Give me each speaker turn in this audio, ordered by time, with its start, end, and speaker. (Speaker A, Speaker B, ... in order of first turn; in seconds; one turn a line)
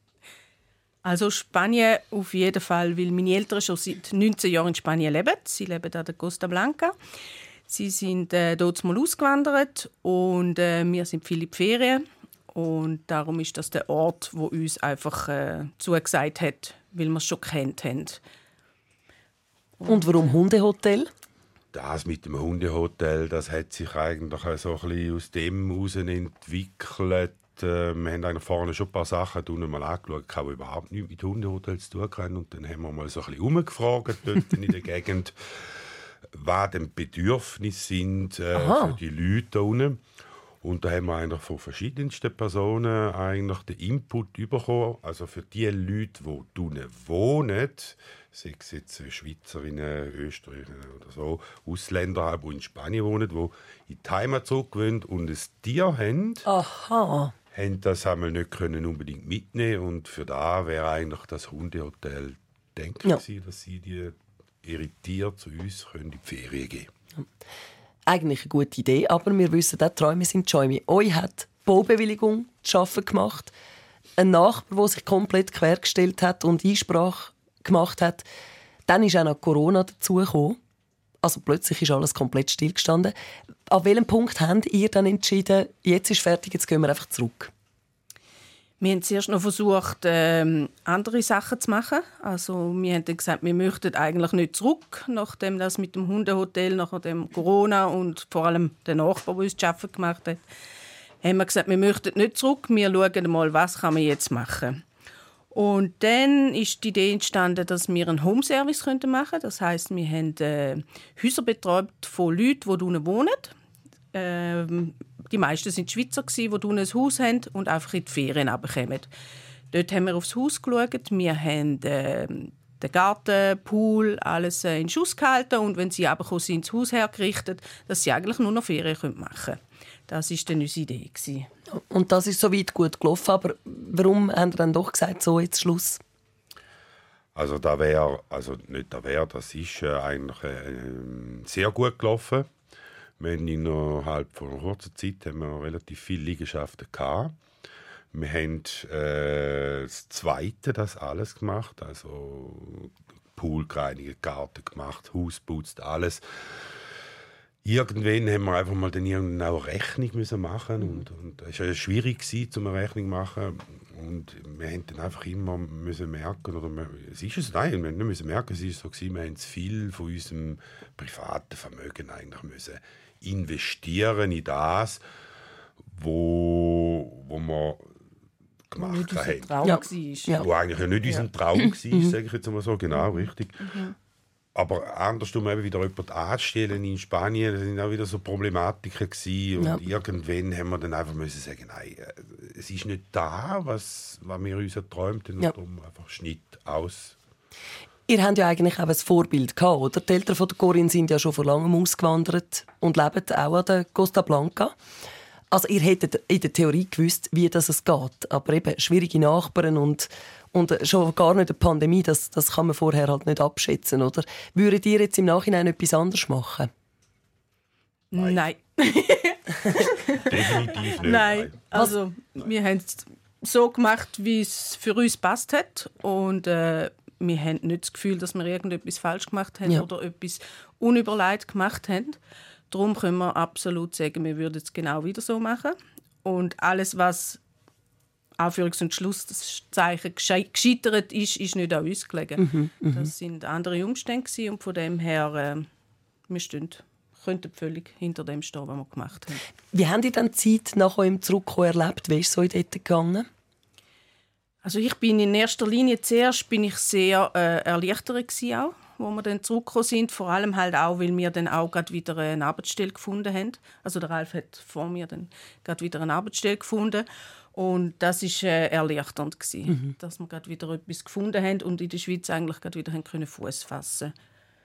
Speaker A: 1.0-7.0
Speaker A: 7.7-18.2
Speaker A: 19.8-20.1
Speaker B: 19.9-21.1
Speaker C: 21.7-35.8
Speaker C: 36.3-40.0
Speaker B: 38.5-39.0
Speaker C: 40.6-56.5
Speaker B: 56.5-57.3
Speaker C: 57.5-66.9
Speaker B: 68.1-73.5
Speaker B: 74.2-78.3
Speaker B: 78.9-80.6
Speaker B: 81.2-83.1
Speaker B: 83.7-87.5
Speaker A: 88.8-100.4
Speaker A: 101.2-104.8
Speaker A: 105.5-113.5
Speaker A: 114.1-119.1
Speaker A: 119.7-131.5
Speaker B: 131.7-136.0
Speaker C: 137.3-142.5
Speaker C: 143.2-147.4
Speaker C: 148.1-156.7
Speaker C: 157.6-175.0
Speaker C: 175.9-177.9
Speaker C: 178.7-179.7
Speaker A: 178.8-180.5
Speaker B: 179.6-180.5
Speaker C: 180.4-183.8
Speaker A: 181.0-181.3
Speaker A: 183.0-183.8
Speaker C: 184.6-197.2
Speaker B: 198.1-204.8
Speaker B: 205.5-216.7
Speaker A: 218.1-232.2
Speaker C: 218.1-218.5
Speaker C: 220.3-221.9
Speaker A: 232.7-237.4
Speaker A: 238.4-245.7
Speaker B: 242.4-243.1
Speaker A: 246.3-249.4
Speaker B: 249.7-253.3
Speaker A: 254.6-274.1
Speaker B: 269.7-269.9